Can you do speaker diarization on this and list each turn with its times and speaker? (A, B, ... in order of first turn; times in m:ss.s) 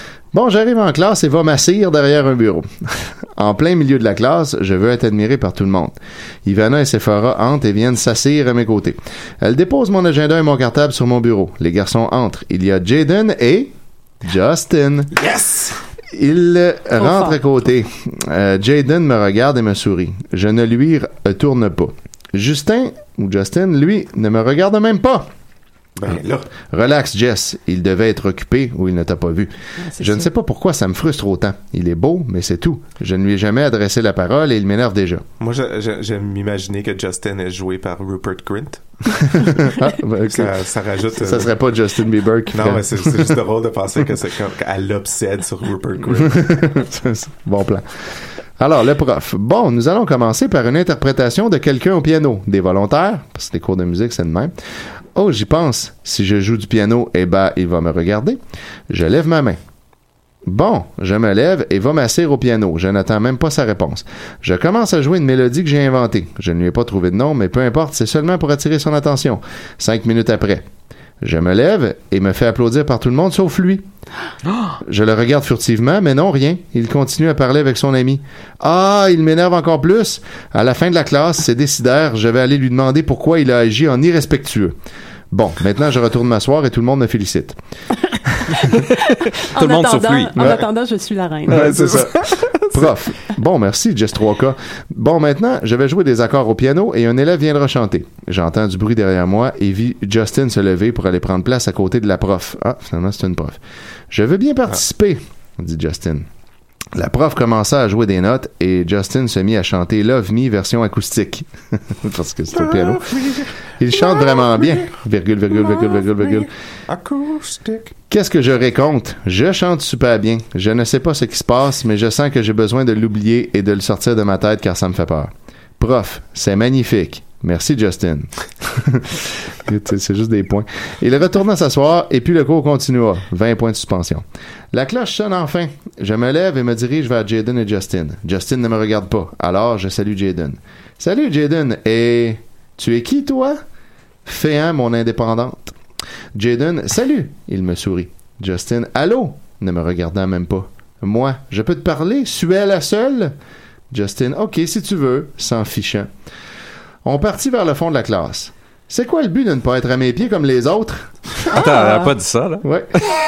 0:00.3-0:15.1 A
0:15.1-0:15.8 B
0:16.1-0:25.3 A
0:17.0-0:17.4 C
0:26.0-0:26.5 B
0:26.7-0:35.2 A
0:29.9-0:30.3 C
0:35.4-0:39.0 B
0:39.3-0:40.5 A
0:40.3-0:41.5 B
0:41.1-0:43.4 A
0:42.5-0:46.7 B
0:46.2-0:47.9 A
0:48.6-0:54.5 A
0:55.1-0:59.6 A
1:00.4-1:10.7 A
1:11.2-1:13.8 A
1:14.5-1:14.8 D
1:14.8-1:24.7 A
1:25.3-1:27.6 A
1:29.1-1:30.4 D
1:29.5-1:31.8 C
1:30.4-1:30.6 A
1:31.5-1:43.6 A
1:31.5-1:32.6 D
1:44.1-1:46.3 A
1:46.9-1:53.2 A
1:52.5-1:53.5 B
1:53.8-1:56.5 A
1:56.9-1:58.0 B
1:58.1-2:23.6 A
2:24.2-2:25.8 A
2:26.3-2:33.4 A
2:33.9-2:36.1 A
2:37.0-2:41.3 A
2:41.5-2:42.7 D
2:41.5-2:42.1 C
2:42.6-2:43.0 A